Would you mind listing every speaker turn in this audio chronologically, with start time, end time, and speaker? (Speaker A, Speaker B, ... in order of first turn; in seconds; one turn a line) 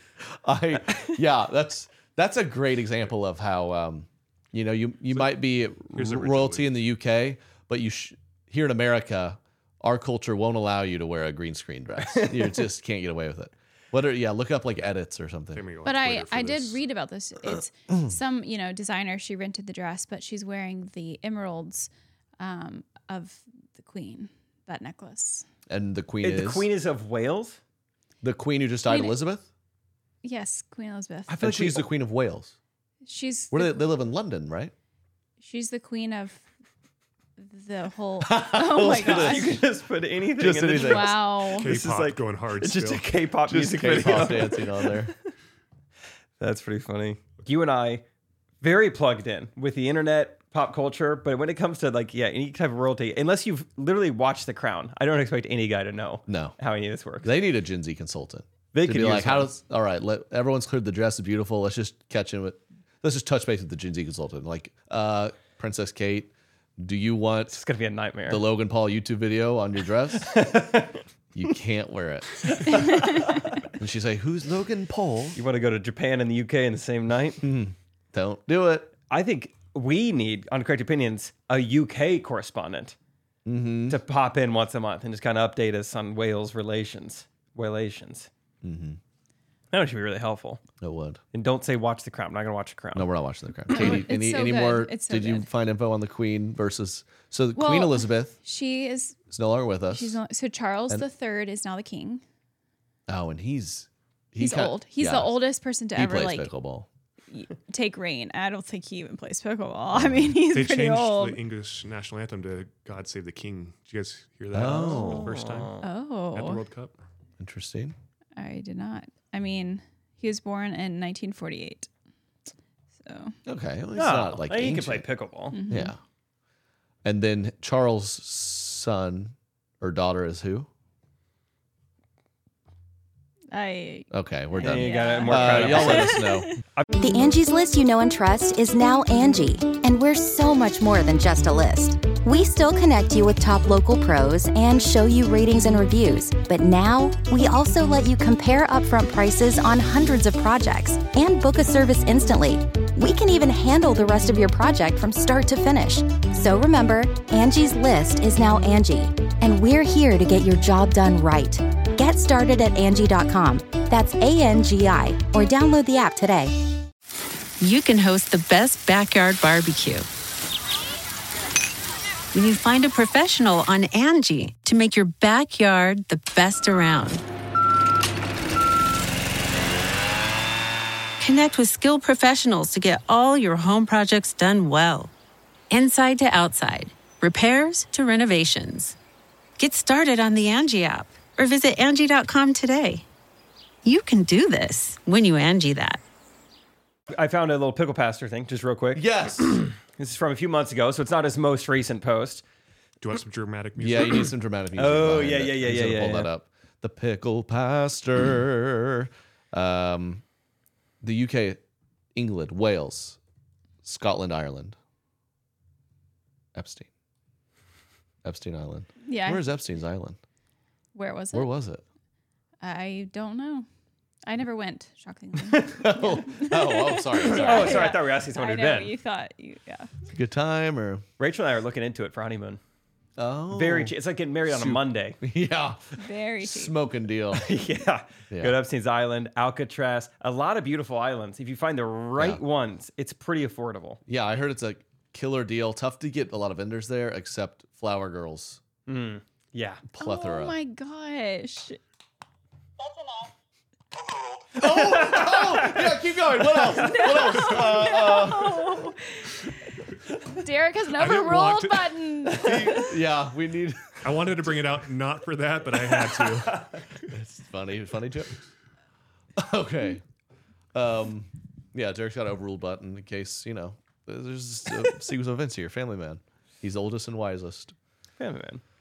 Speaker A: 0.4-15.7
Speaker B: 5.9-6.7
Speaker C: 12.2-12.5
Speaker B: 15.6-16.8
Speaker D: 15.8-25.5
Speaker A: 17.9-18.1
Speaker A: 25.7-26.7
Speaker C: 26.2-27.6
Speaker A: 28.2-29.5
Speaker D: 28.9-29.2
Speaker D: 30.2-31.8
Speaker A: 31.3-32.5
Speaker D: 33.0-33.9
Speaker A: 33.5-34.7
Speaker D: 35.4-36.4
Speaker D: 37.4-39.6
Speaker A: 38.2-39.6
Speaker C: 38.9-45.1
Speaker A: 40.4-41.2
Speaker D: 40.7-41.7
Speaker B: 41.5-43.1
Speaker A: 43.5-45.1
Speaker B: 44.0-44.3
Speaker C: 46.4-48.0
Speaker C: 48.6-57.3
Speaker A: 56.3-56.5
Speaker A: 57.2-67.6
Speaker C: 58.7-59.5
Speaker C: 67.5-68.4
Speaker A: 68.3-70.4
Speaker C: 70.3-71.0
Speaker A: 71.3-72.8
Speaker C: 72.7-73.1
Speaker A: 73.8-75.4
Speaker C: 75.4-77.4
Speaker A: 77.4-78.9
Speaker C: 79.1-83.0
Speaker A: 83.5-84.0
Speaker C: 83.9-88.3
Speaker A: 88.6-89.0
Speaker C: 89.7-90.6
Speaker A: 90.8-91.2
Speaker C: 91.3-93.1
Speaker A: 93.0-98.3
Speaker D: 93.7-95.5
Speaker D: 97.5-99.2
Speaker A: 99.3-100.2
Speaker D: 99.9-102.2
Speaker A: 103.1-105.4
Speaker D: 104.4-106.5
Speaker A: 105.9-106.9
Speaker D: 107.3-111.4
Speaker A: 109.9-110.4
Speaker B: 110.5-115.8
Speaker A: 114.5-115.3
Speaker C: 114.7-115.8
Speaker D: 115.8-116.7
Speaker B: 116.3-117.0
Speaker A: 117.4-118.0
Speaker D: 118.4-121.9
Speaker D: 123.0-123.4
Speaker A: 123.5-125.1
Speaker C: 124.0-125.6
Speaker D: 125.5-125.9
Speaker A: 125.7-126.0
Speaker A: 127.0-130.7
Speaker D: 133.5-136.5
Speaker A: 134.1-136.5
Speaker C: 134.6-136.2
Speaker E: 137.0-166.6
Speaker F: 167.6-170.1
Speaker F: 172.3-177.2
Speaker F: 181.2-185.1
Speaker F: 185.7-189.0
Speaker F: 189.6-193.1
Speaker F: 193.8-196.0
Speaker C: 197.1-202.4
Speaker A: 198.9-199.6
Speaker B: 203.0-204.3
Speaker A: 203.8-210.2
Speaker C: 204.8-206.3
Speaker A: 211.0-211.6
Speaker A: 212.2-213.2
Speaker A: 213.8-214.8
Speaker A: 216.6-216.9
Speaker A: 218.2-220.2
Speaker D: 219.1-219.5
Speaker D: 220.9-221.5
Speaker A: 221.3-221.8
Speaker D: 222.6-223.7
Speaker D: 224.2-229.9
Speaker A: 225.8-227.9
Speaker C: 227.2-228.9
Speaker A: 230.1-231.1
Speaker C: 231.2-232.6
Speaker A: 233.2-233.9
Speaker C: 233.5-235.2
Speaker A: 234.5-237.5
Speaker D: 236.0-236.8
Speaker C: 237.3-244.0
Speaker A: 244.1-248.6
Speaker C: 248.9-249.8
Speaker A: 249.9-250.6
Speaker D: 250.0-251.8
Speaker A: 254.6-258.7
Speaker C: 254.6-256.0
Speaker C: 256.6-257.3
Speaker D: 256.8-259.4
Speaker D: 260.4-262.9
Speaker B: 260.9-262.0
Speaker A: 262.4-264.4
Speaker B: 264.0-266.7
Speaker C: 266.1-266.8
Speaker A: 267.1-268.4
Speaker A: 269.4-270.0
Speaker A: 270.7-277.8
Speaker C: 278.2-278.6